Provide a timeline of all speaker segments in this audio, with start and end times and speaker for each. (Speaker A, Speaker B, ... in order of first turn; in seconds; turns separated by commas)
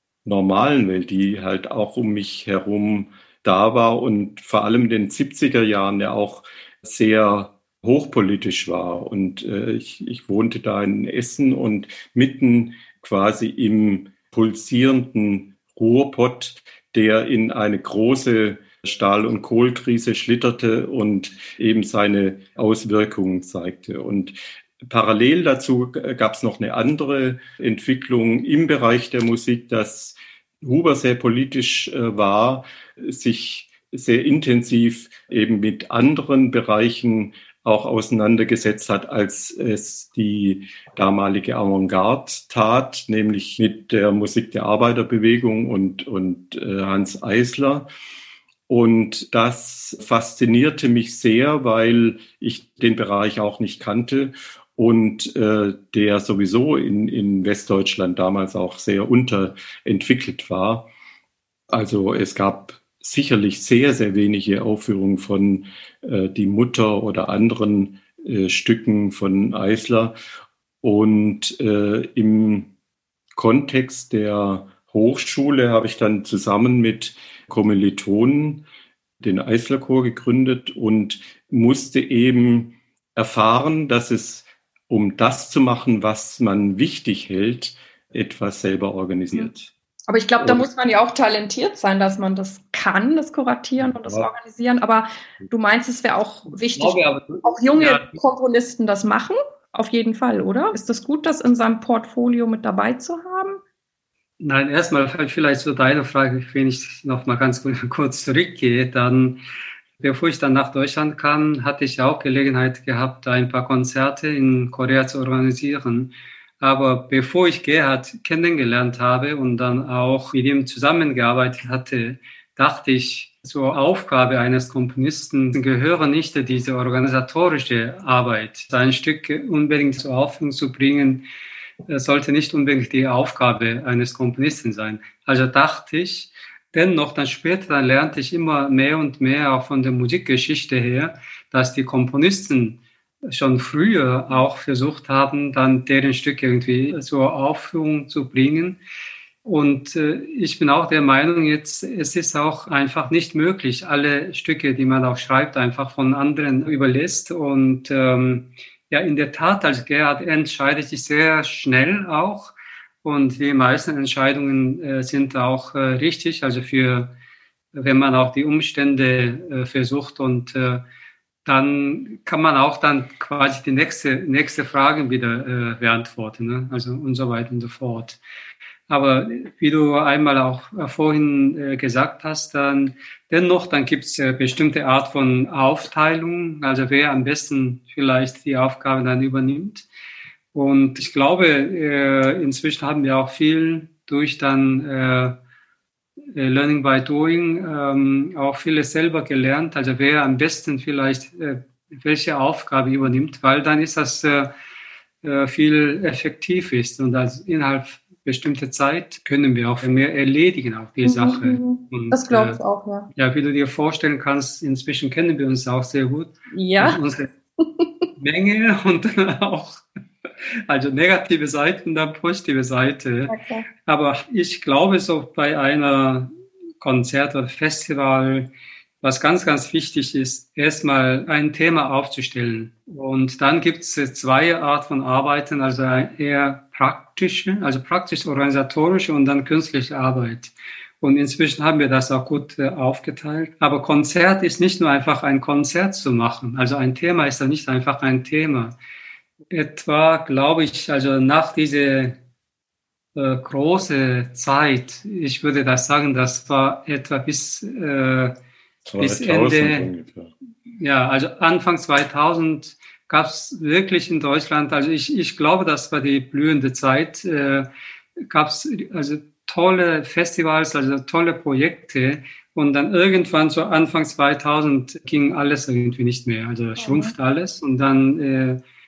Speaker A: 0.2-47.9, Speaker A: 48.7-60.9, Speaker A: 61.7-70.2, Speaker A: 70.8-72.7, Speaker A: 73.4-78.6, Speaker A: 79.2-89.7, Speaker B: 90.1-103.6, Speaker A: 90.4-90.7, Speaker A: 93.8-94.3, Speaker C: 96.8-98.2, Speaker C: 104.4-109.4, Speaker C: 110.0-131.2, Speaker C: 131.9-148.8, Speaker C: 149.4-167.1, Speaker C: 167.7-170.8, Speaker C: 171.4-178.2, Speaker C: 178.9-189.9, Speaker C: 190.5-195.4, Speaker C: 196.3-204.5, Speaker C: 205.2-217.3, Speaker B: 211.0-213.1, Speaker B: 216.5-217.0, Speaker B: 217.6-217.9, Speaker C: 218.2-219.8, Speaker C: 220.7-228.5, Speaker B: 223.3-223.7, Speaker C: 229.0-248.7, Speaker C: 249.5-252.2, Speaker C: 253.2-258.4, Speaker A: 258.9-260.3, Speaker C: 259.0-259.9, Speaker C: 260.8-267.7, Speaker C: 268.3-278.6, Speaker B: 276.8-277.1